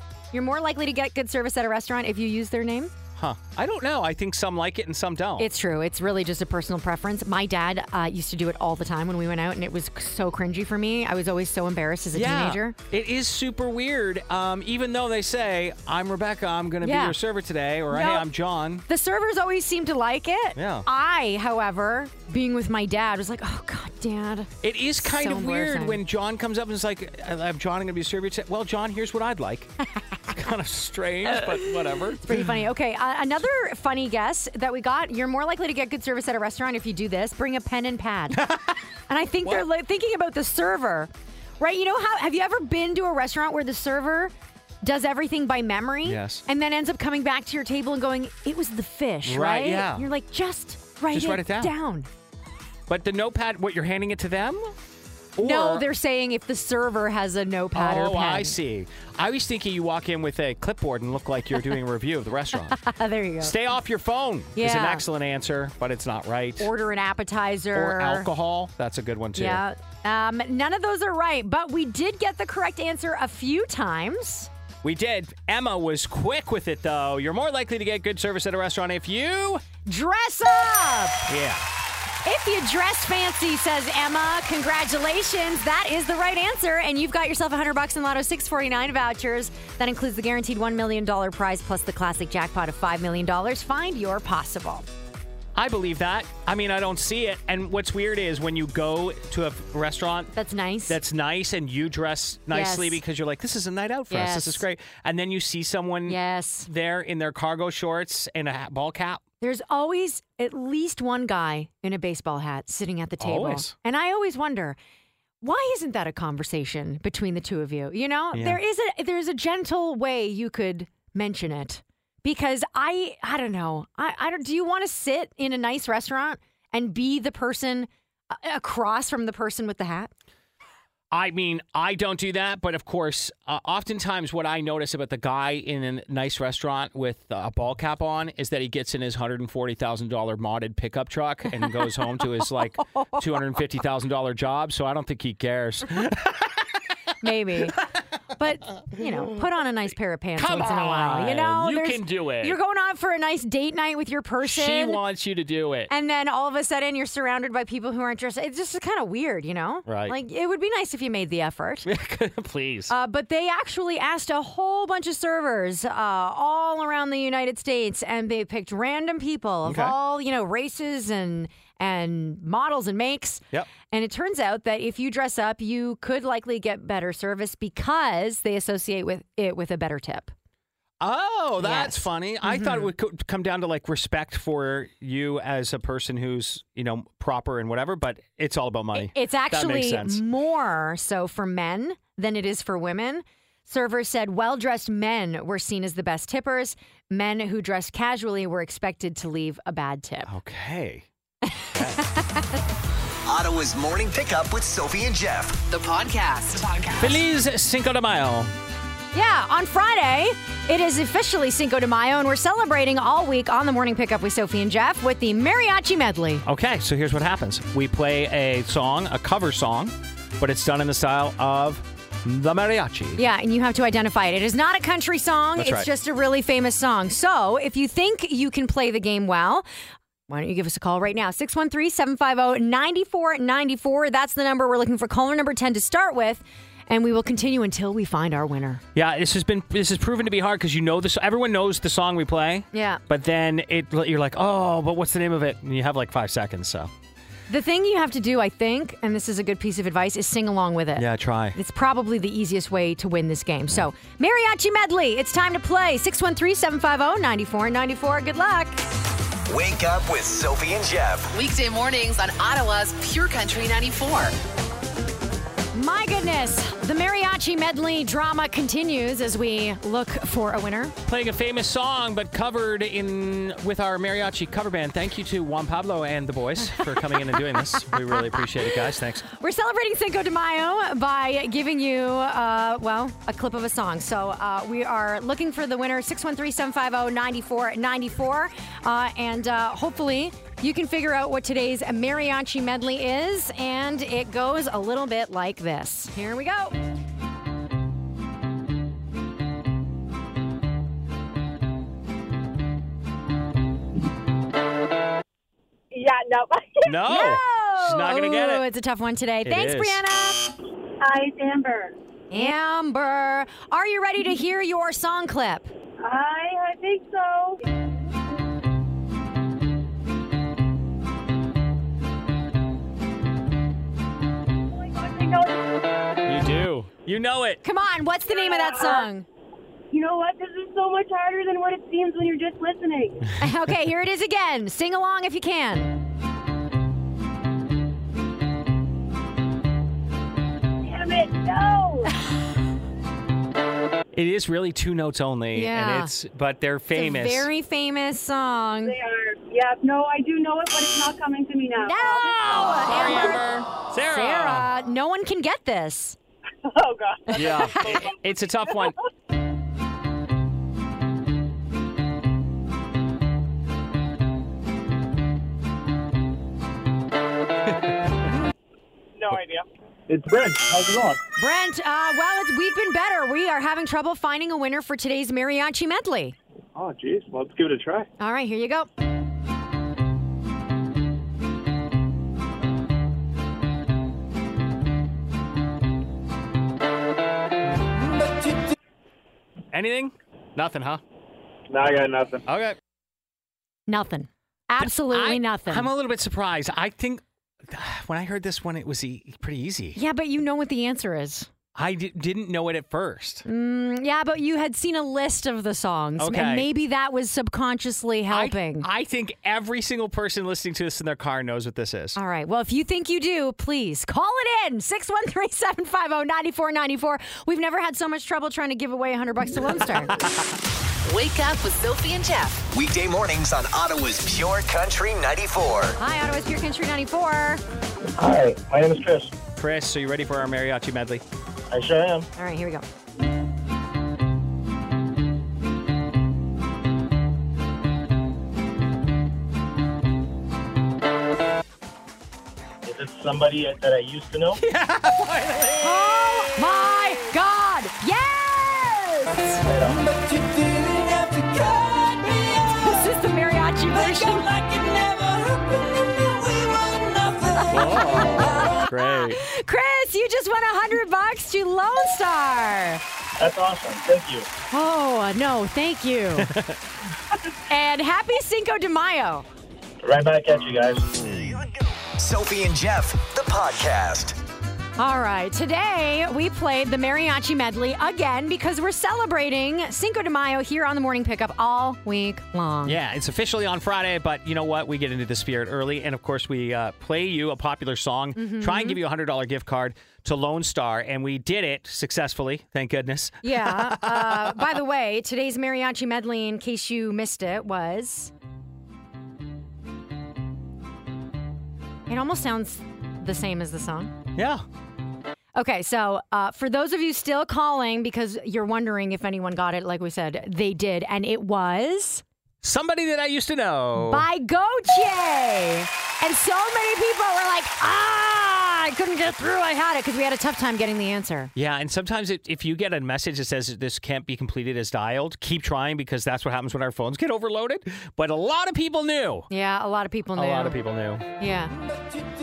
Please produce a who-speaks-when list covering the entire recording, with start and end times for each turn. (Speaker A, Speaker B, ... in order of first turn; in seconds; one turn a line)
Speaker A: 0.3-2.9
Speaker B: 3.1-5.5
Speaker A: 5.4-12.8
Speaker B: 12.1-18.8
Speaker A: 16.8-17.2
Speaker A: 17.9-18.3
Speaker A: 18.9-26.0
Speaker B: 20.6-20.9
Speaker B: 24.6-29.7
Speaker B: 30.3-32.4
Speaker A: 32.2-38.5
Speaker B: 38.3-38.8
Speaker A: 39.1-52.1
Speaker B: 46.0-46.4
Speaker B: 49.2-50.1
Speaker B: 51.1-51.7
Speaker B: 52.9-54.7
Speaker B: 55.4-55.9
Speaker A: 55.4-58.6
Speaker B: 57.7-62.8
Speaker A: 62.7-63.5
Speaker B: 63.4-66.7
Speaker A: 64.5-65.0
Speaker A: 66.6-68.3
Speaker B: 67.7-69.6
Speaker A: 69.3-74.5
Speaker B: 74.8-79.6
Speaker A: 79.8-81.3
Speaker B: 81.3-81.6
Speaker A: 82.2-94.9
Speaker B: 95.5-100.3
Speaker A: 100.3-101.0
Speaker B: 100.9-109.2
Speaker A: 102.5-103.0
Speaker A: 104.1-104.6
Speaker A: 106.1-106.7
Speaker A: 109.4-114.8
Speaker B: 113.2-113.7
Speaker A: 115.4-130.1
Speaker B: 118.3-118.6
Speaker B: 131.1-146.6
Speaker A: 142.9-143.2
Speaker A: 147.2-147.8
Speaker A: 148.3-155.0
Speaker B: 150.4-152.6
Speaker B: 154.4-155.9
Speaker A: 155.9-161.9
Speaker B: 159.8-160.2
Speaker B: 161.8-162.9
Speaker A: 162.9-180.3
Speaker B: 169.6-169.9
Speaker B: 181.0-190.2
Speaker A: 181.6-182.9
Speaker A: 188.9-200.3
Speaker B: 200.2-201.1
Speaker A: 201.5-202.4
Speaker B: 201.7-202.0
Speaker C: 203.2-205.6
Speaker D: 205.7-207.1
Speaker B: 207.0-208.5
Speaker A: 209.1-216.4
Speaker B: 216.4-223.2
Speaker A: 223.2-229.7
Speaker B: 225.6-225.9
Speaker A: 230.3-238.8
Speaker B: 238.9-246.9
Speaker A: 242.7-243.0
Speaker A: 247.5-258.8
Speaker B: 250.9-251.6
Speaker C: 259.5-261.3
Speaker D: 261.3-264.3
Speaker A: 265.7-270.9
Speaker B: 271.1-279.2
Speaker A: 279.3-296.8
Speaker E: 305.9-307.0
Speaker B: 306.8-308.6
Speaker A: 307.0-310.5
Speaker B: 309.4-310.0
Speaker E: 311.0-311.9
Speaker A: 312.3-315.7
Speaker E: 316.0-317.6
Speaker E: 324.7-325.9
Speaker B: 326.2-327.6
Speaker A: 327.6-329.2
Speaker E: 328.3-329.1
Speaker E: 329.9-333.3
Speaker A: 333.4-335.9
Speaker E: 340.8-342.1
Speaker B: 344.1-347.5
Speaker A: 345.5-346.1
Speaker A: 346.9-348.9
Speaker E: 348.8-352.8
Speaker A: 351.8-353.4
Speaker B: 352.6-354.7
Speaker A: 354.1-356.2
Speaker E: 356.6-358.1
Speaker A: 357.3-358.1
Speaker B: 357.3-359.0
Speaker F: 369.2-371.2
Speaker A: 371.4-376.4
Speaker F: 376.7-378.1
Speaker A: 378.2-378.9
Speaker B: 389.7-391.0
Speaker F: 391.7-392.4
Speaker B: 392.4-392.8
Speaker A: 393.9-395.9
Speaker B: 394.8-400.0
Speaker A: 399.9-401.5
Speaker B: 401.7-403.4
Speaker A: 403.4-408.9
Speaker B: 406.2-406.7
Speaker B: 408.3-412.2
Speaker A: 412.1-420.2
Speaker D: 421.0-422.6
Speaker C: 422.7-426.0
Speaker A: 426.0-427.6
Speaker F: 428.2-429.3
Speaker B: 429.6-431.2
Speaker F: 431.7-432.3
Speaker A: 432.4-432.8
Speaker F: 442.8-444.6
Speaker B: 444.5-446.3
Speaker A: 445.8-449.6
Speaker F: 449.6-450.4
Speaker A: 452.6-454.5
Speaker B: 454.0-455.6
Speaker A: 457.5-463.0
Speaker B: 457.6-459.4
Speaker F: 463.4-464.5
Speaker A: 464.7-466.5
Speaker B: 466.4-466.8
Speaker A: 467.7-469.4
Speaker F: 470.0-471.3
Speaker C: 472.2-474.4
Speaker A: 475.0-483.0
Speaker B: 482.8-494.7
Speaker A: 488.4-489.0
Speaker A: 493.4-498.3
Speaker A: 502.1-504.1
Speaker B: 504.4-504.6
Speaker A: 505.5-512.2
Speaker B: 512.6-514.3
Speaker A: 514.0-521.5
Speaker B: 521.5-529.5
Speaker A: 529.5-530.8
Speaker B: 530.3-531.2
Speaker A: 531.4-531.7